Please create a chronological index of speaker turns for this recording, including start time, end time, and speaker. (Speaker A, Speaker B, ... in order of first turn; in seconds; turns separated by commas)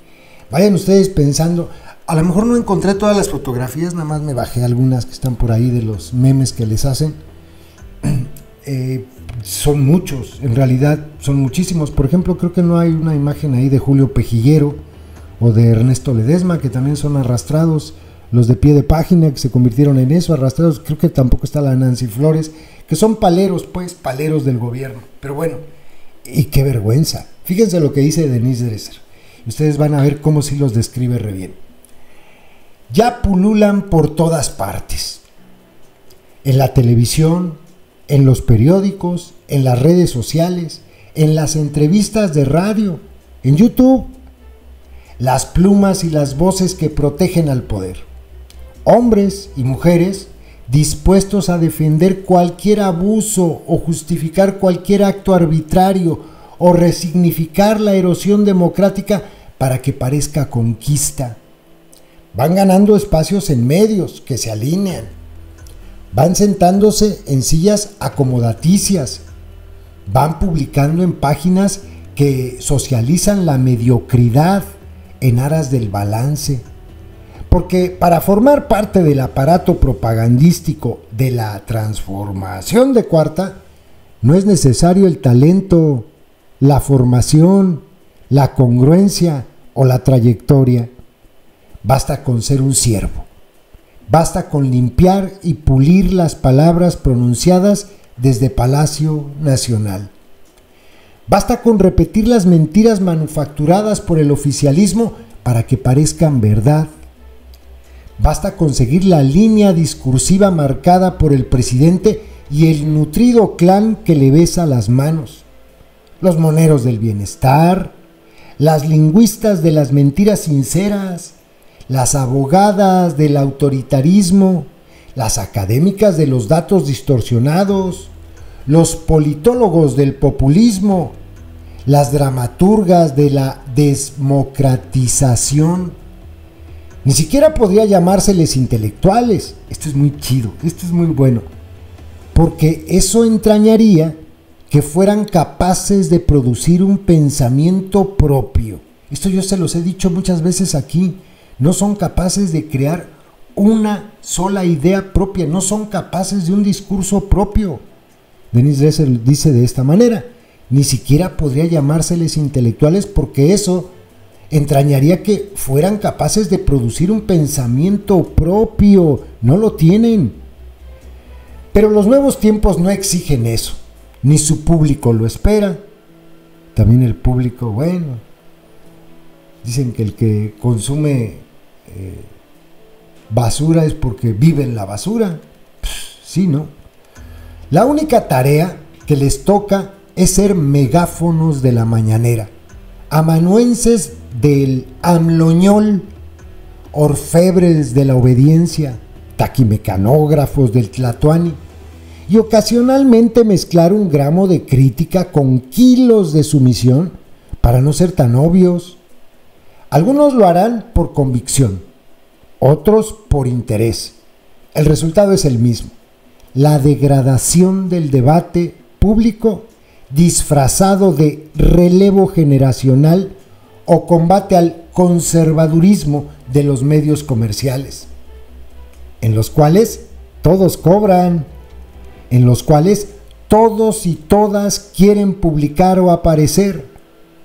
Speaker A: 0.5-7.2, Speaker A: 8.0-14.8, Speaker A: 15.4-25.6, Speaker A: 26.2-31.6, Speaker A: 32.9-35.2, Speaker A: 36.4-44.2, Speaker A: 45.2-48.0, Speaker A: 48.9-61.4, Speaker A: 62.3-65.1, Speaker A: 66.1-69.3, Speaker A: 70.1-74.7, Speaker A: 75.2-76.7, Speaker A: 77.5-83.6, Speaker A: 84.2-86.1, Speaker A: 86.6-90.9, Speaker A: 91.8-93.3, Speaker A: 94.1-100.1, Speaker A: 101.3-106.9, Speaker A: 108.2-115.5, Speaker A: 116.2-118.0, Speaker A: 118.6-121.4, Speaker A: 121.9-128.1, Speaker A: 128.7-131.2, Speaker A: 131.9-136.0, Speaker A: 137.0-141.5, Speaker A: 142.3-144.2, Speaker A: 144.7-157.8, Speaker A: 158.5-163.9, Speaker A: 164.5-170.4, Speaker A: 171.7-175.8, Speaker A: 176.7-178.2, Speaker A: 179.6-182.3, Speaker A: 183.3-186.7, Speaker A: 187.7-192.5, Speaker A: 193.1-196.1, Speaker A: 196.9-201.6, Speaker A: 202.3-209.0, Speaker A: 209.9-211.9, Speaker A: 212.6-214.2, Speaker A: 214.7-215.9, Speaker A: 216.5-223.3, Speaker A: 223.9-228.1, Speaker A: 229.2-231.5, Speaker A: 232.3-236.9